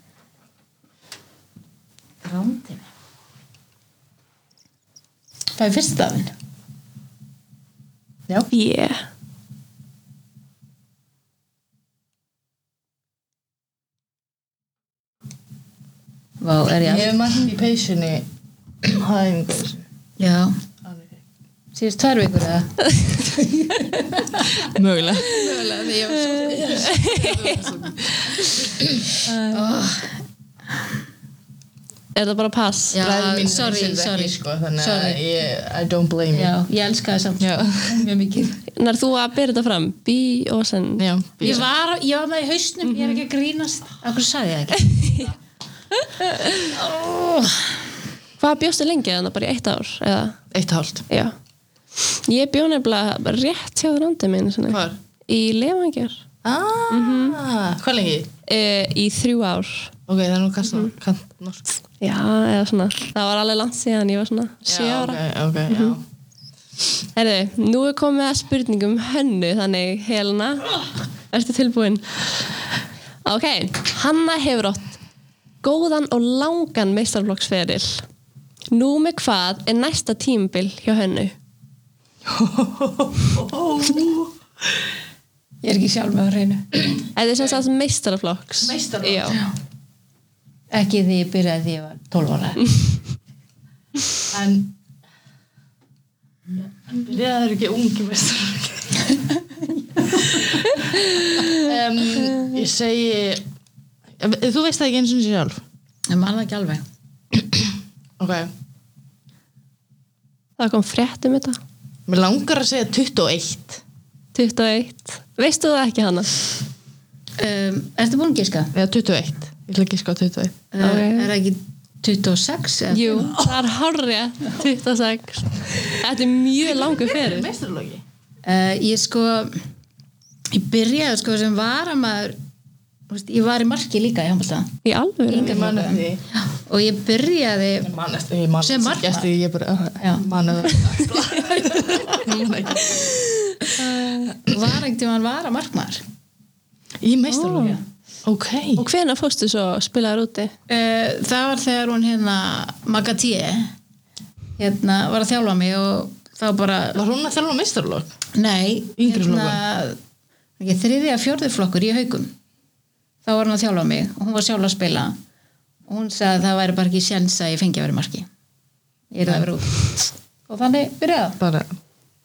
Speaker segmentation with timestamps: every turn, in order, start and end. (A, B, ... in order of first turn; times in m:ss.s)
0:02.2-0:02.9 A
0:05.6-0:06.3 A
0:08.5-0:09.0 B
0:16.4-0:17.2 A
0:16.8-0:18.3 C
0:18.8-0:19.8 C
0:20.2-0:20.6 A
0:20.8-0:21.2 C
0:21.7-0:24.7 A
0:24.6-0:25.3 C
0:25.2-0:27.0 A
0:26.4-0:29.1 C
0:26.7-0:27.4 B
0:29.3-0:30.2 A
0:32.2-0:33.0 B
0:32.9-0:35.2 A
0:33.0-0:36.5 C
0:36.3-0:38.6 A
0:37.4-0:38.1 C
0:38.8-0:41.6 B
0:41.0-0:41.6 C
0:41.4-0:45.2 A
0:42.9-0:43.2 B
0:44.8-0:45.2 B
0:46.7-0:47.6 A
0:48.4-0:50.4 B
0:50.5-0:51.1 C
0:52.0-0:56.2 B
0:54.7-0:55.0 C
0:56.4-0:58.3 C
0:56.9-0:57.4 B
0:58.5-0:59.9 B
1:00.1-1:01.7 C
1:02.0-1:06.0 B
1:04.7-1:06.0 C
1:07.2-1:12.1 B
1:13.2-1:15.0 B
1:15.6-1:18.0 B
1:18.7-1:21.3 B
1:22.2-1:24.3 C
1:25.6-1:27.0 A
1:27.2-1:29.4 B
1:28.6-1:29.4 C
1:30.7-1:32.7 A
1:34.3-1:34.8 C
1:36.6-1:39.1 C
1:40.1-1:40.4 A
1:41.5-1:43.4 C
1:44.2-1:45.6 C
1:46.1-1:46.8 A
1:47.4-1:48.5 C
1:50.6-1:51.6 B
1:52.1-1:53.8 C
1:54.3-1:56.3 B
1:57.4-1:58.7 A
1:58.7-2:00.6 C
2:00.7-2:03.5 A
2:00.8-2:01.3 B
2:02.9-2:07.5 B
2:06.6-2:08.0 C
2:08.4-2:09.6 A
2:10.5-2:12.4 A
2:13.1-2:14.7 A
2:14.8-2:15.6 B
2:15.3-2:17.9 A
2:15.3-2:16.2 C
2:17.8-2:24.6 C
2:18.6-2:19.3 A
2:20.0-2:20.3 A
2:24.0-2:26.0 A
2:27.0-2:28.8 C
2:27.3-2:27.8 B
2:28.8-2:30.5 B
2:30.7-2:33.7 A
2:34.6-2:37.0 A
2:37.0-2:38.1 C
2:38.4-2:40.0 A
2:39.0-2:39.6 C
2:40.6-2:42.4 A
2:43.3-2:45.2 A
2:45.9-2:48.3 A
2:49.1-2:51.4 A
2:51.4-2:51.8 C